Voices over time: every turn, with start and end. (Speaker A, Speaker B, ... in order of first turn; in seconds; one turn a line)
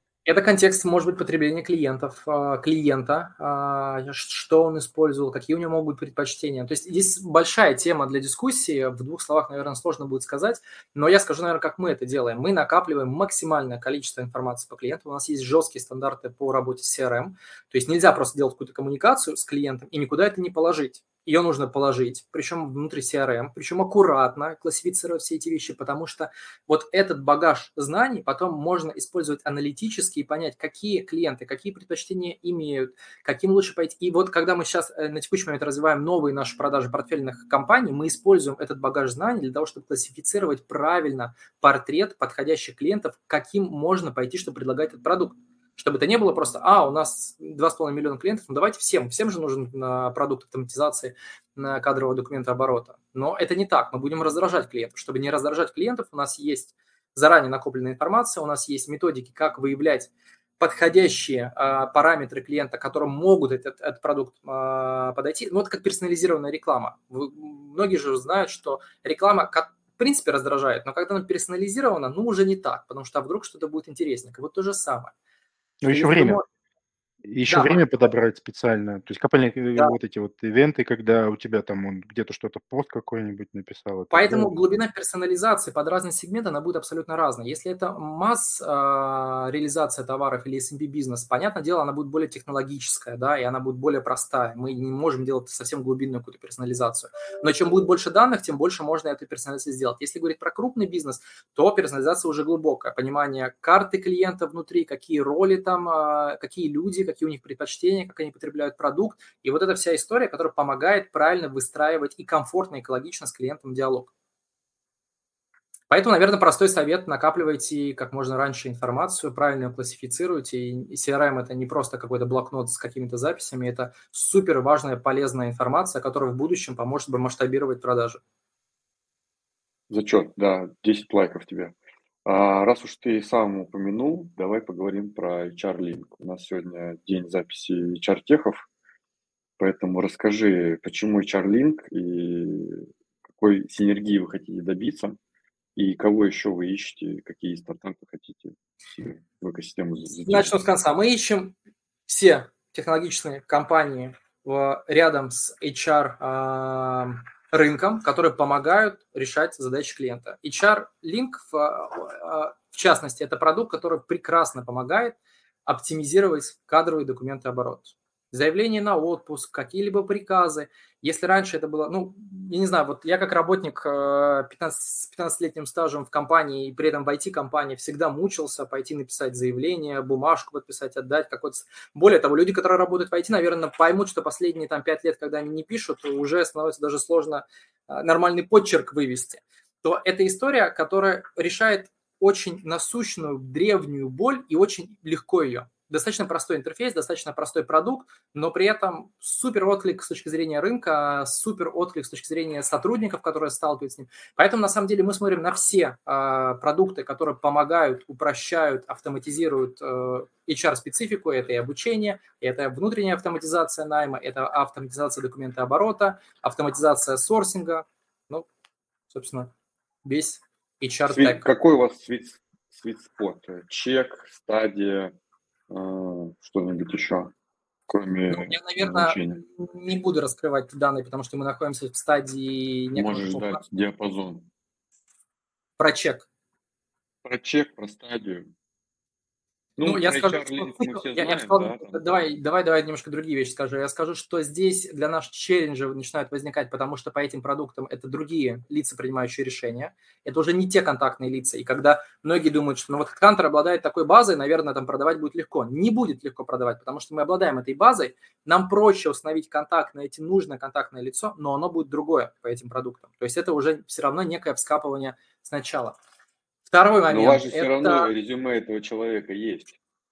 Speaker A: 0.2-75.1
Speaker B: 75.8-76.4
Speaker A: 75.9-76.4
Speaker B: 77.3-84.6
Speaker A: 77.5-77.8
Speaker A: 84.1-114.1
Speaker A: 115.9-128.2
Speaker C: 129.9-131.7
Speaker C: 132.2-138.6
Speaker C: 139.6-145.2
Speaker C: 145.8-150.6
Speaker A: 150.2-151.5
Speaker A: 152.1-218.5
Speaker A: 219.1-219.5
Speaker A: 220.0-221.5
Speaker C: 221.1-225.1
Speaker C: 225.7-227.3
Speaker C: 227.9-229.4
Speaker A: 228.3-233.6
Speaker C: 232.9-234.5
Speaker A: 235.8-236.2
Speaker C: 237.2-238.5
Speaker C: 239.8-242.1
Speaker A: 239.8-265.9
Speaker A: 266.7-268.1
Speaker C: 267.1-269.8